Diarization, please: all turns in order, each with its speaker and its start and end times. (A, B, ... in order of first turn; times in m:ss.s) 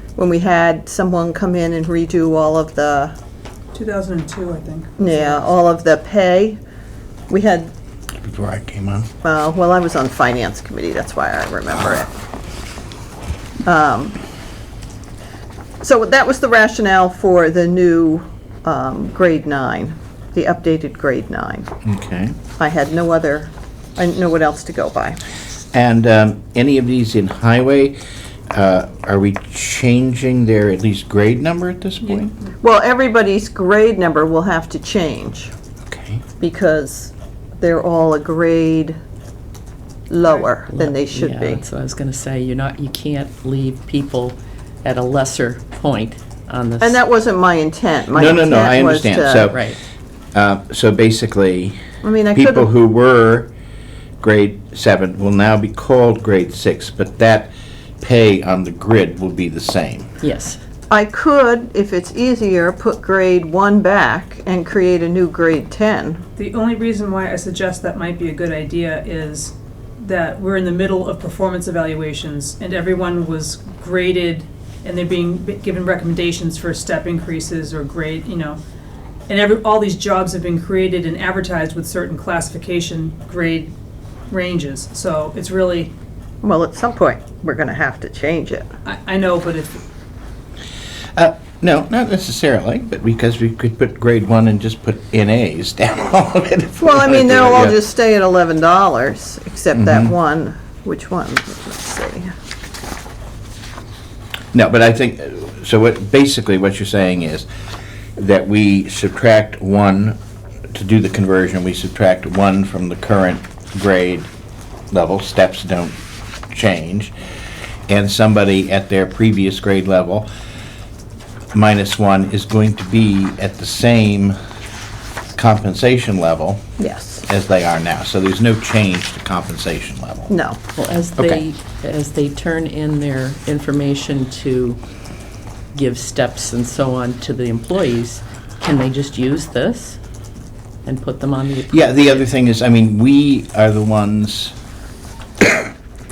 0:00.2-0:03.2 A
0:03.7-0:05.4 B
0:05.0-0:06.6 A
0:07.3-0:07.7 A
0:08.2-0:09.1 C
0:09.2-0:12.1 A
0:13.6-0:14.2 A
0:15.8-0:21.7 A
0:21.8-0:22.4 C
0:22.6-0:25.2 A
0:25.7-0:28.0 C
0:28.5-0:32.3 C
0:32.6-0:35.5 A
0:35.9-0:36.2 C
0:36.4-0:39.0 A
0:40.1-0:41.6 A
0:40.7-0:47.0 D
0:46.8-0:49.5 A
0:48.1-0:49.7 C
0:49.5-0:49.8 D
0:50.3-0:51.8 C
0:52.0-0:52.7 A
0:52.3-0:53.5 C
0:54.2-1:00.1 C
1:00.2-1:00.6 D
1:00.9-1:06.2 A
1:06.4-1:18.6 B
1:19.3-1:23.7 B
1:24.3-1:25.9 B
1:26.4-1:28.7 A
1:28.8-1:29.8 B
1:31.2-1:37.8 C
1:36.8-1:42.3 A
1:39.7-1:40.1 C
1:44.5-1:47.5 C
1:48.2-1:50.2 C
1:50.7-1:54.3 C
1:54.9-1:56.0 C
1:56.5-1:57.1 C
1:57.9-2:00.3 C
2:01.5-2:04.4 C
2:05.4-2:06.6 C
2:06.8-2:07.3 A
2:07.3-2:10.3 C
2:10.3-2:10.6 A
2:10.8-2:14.8 D
2:11.2-2:11.4 C
2:15.7-2:20.0 D
2:20.8-2:22.2 D
2:21.7-2:24.5 C
2:25.4-2:25.7 C